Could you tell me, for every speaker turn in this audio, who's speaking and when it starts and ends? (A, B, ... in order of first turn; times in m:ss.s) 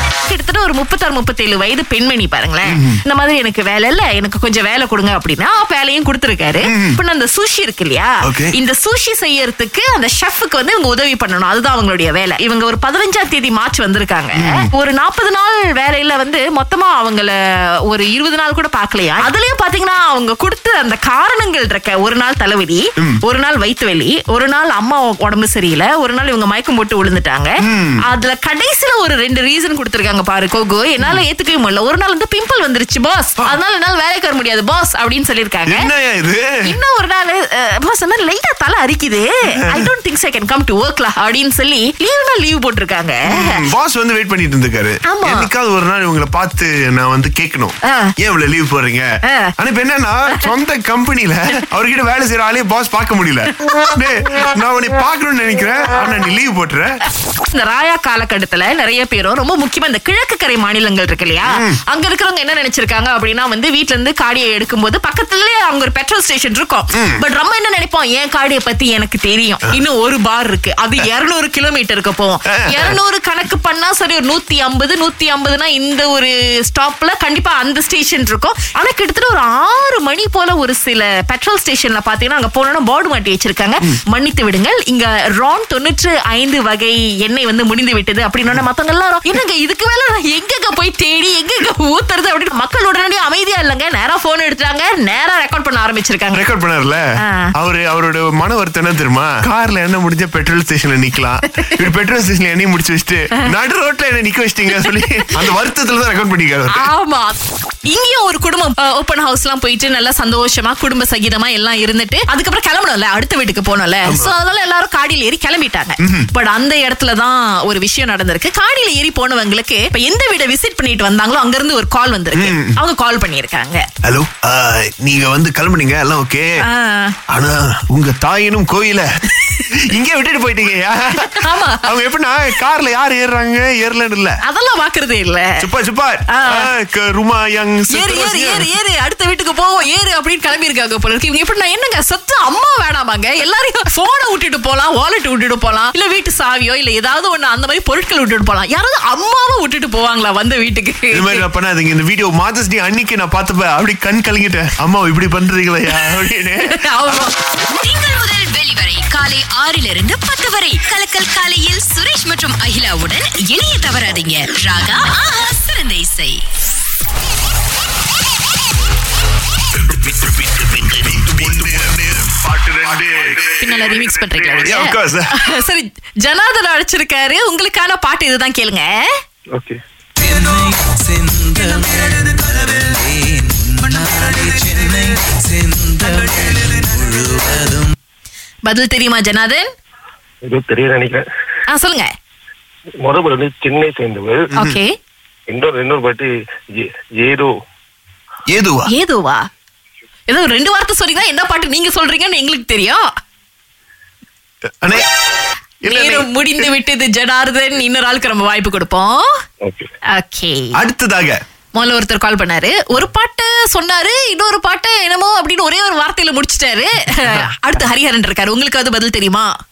0:00.3-0:17.4 A
0:02.7-0:03.0 B
0:06.6-0:07.0 B
0:08.2-0:08.6 B
0:14.4-0:14.7 B
0:17.9-0:35.9 A
0:27.6-0:28.0 B
0:35.7-0:36.5 B
0:36.7-0:43.6 A
0:39.6-0:39.9 B
0:43.3-0:49.1 B
0:45.1-0:45.5 A
0:47.8-0:48.1 A
0:49.2-0:49.5 A
0:49.6-0:57.0 B
0:57.3-1:36.4 A
1:01.5-1:01.8 B
1:07.0-1:07.2 B
1:12.5-1:13.0 B
1:36.3-1:37.0 B
1:37.2-1:37.5 A
1:37.6-1:46.9 B
1:44.7-1:45.5 A
1:46.7-2:03.9 A
1:54.1-1:54.3 B
1:56.0-1:56.3 B
2:02.3-2:02.8 B
2:04.0-2:06.5 B
2:06.7-2:07.2 A
2:07.3-2:09.1 B
2:09.6-2:14.4 B
2:11.2-2:11.9 A
2:14.4-2:15.6 A
2:15.6-2:18.7 B
2:16.3-2:16.7 A
2:17.9-2:31.5 A
2:31.1-2:37.3 B
2:35.9-2:37.3 A
2:37.8-2:45.2 C
2:40.0-2:41.9 A
2:44.6-2:46.4 A
2:46.0-2:46.4 C
2:49.9-2:54.0 B
2:53.6-2:59.1 A
2:54.6-2:55.3 B
2:59.6-2:59.8 D
3:00.2-3:07.9 E
3:08.7-3:09.7 A
3:10.4-3:11.3 D
3:11.7-3:12.1 A
3:13.0-3:14.5 D
3:14.6-3:14.9 A
3:15.5-3:17.5 D
3:18.5-3:18.9 B
3:18.9-3:19.4 A
3:20.3-3:23.0 A
3:25.8-3:26.3 B
3:25.9-3:29.3 A
3:30.1-3:30.8 A
3:30.8-3:31.4 B
3:31.8-3:39.5 A